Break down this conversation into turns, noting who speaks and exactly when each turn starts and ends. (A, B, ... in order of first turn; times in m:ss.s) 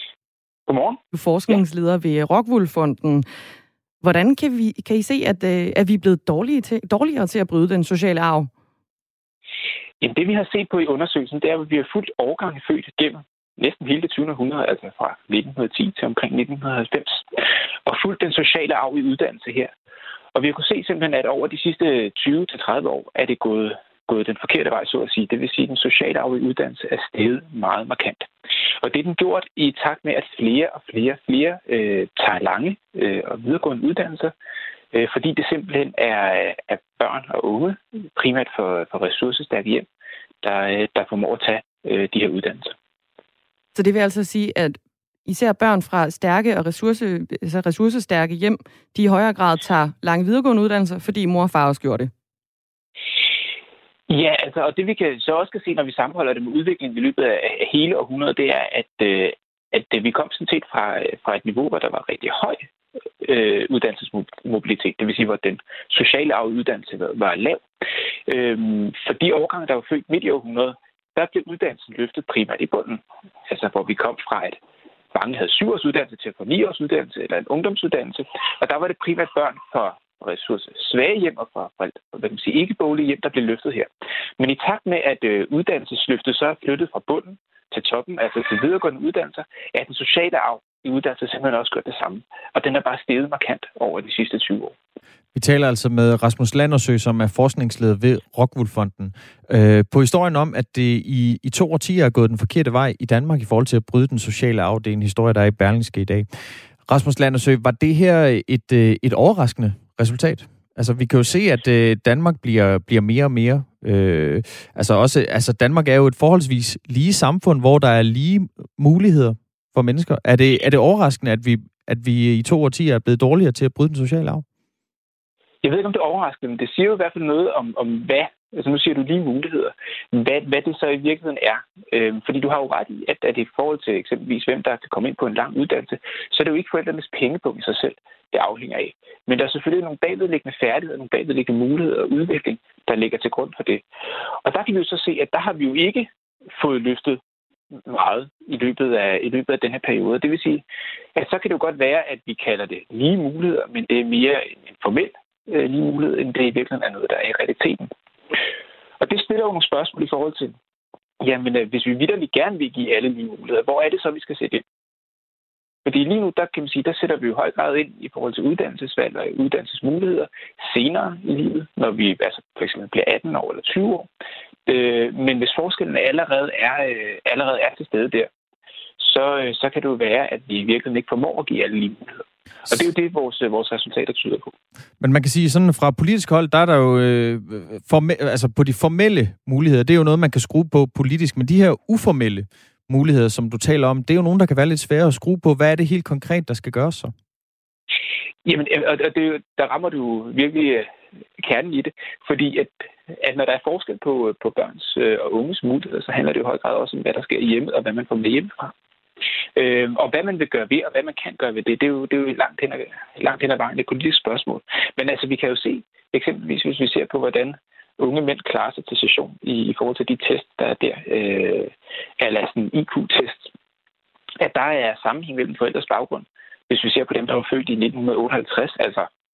0:00.7-0:01.6 A
0:01.1-0:03.2 B
0:04.0-0:08.5 B
0:10.0-0:17.2 A
0:17.8-0:19.7 A
0:20.3-0:28.3 A
0:28.8-0:34.3 A
0:34.9-0:39.8 A
0:40.4-0:42.7 A
0:43.7-0:52.1 B
0:54.1-1:02.6 A
1:03.2-1:07.6 A
1:08.3-1:14.6 A
1:15.1-1:34.7 A
1:35.3-1:46.3 C
1:46.9-2:04.4 C
2:05.6-2:23.8 A
2:24.4-2:27.2 A
2:27.8-2:30.6 A
2:31.1-2:37.9 A
2:39.0-2:40.6 A
2:41.2-2:44.6 A
2:45.8-2:54.1 A
2:54.7-2:58.3 A
2:59.0-3:04.5 A
3:05.0-3:17.1 C
3:18.4-3:28.7 A
3:29.6-3:43.5 A
3:44.4-3:49.1 A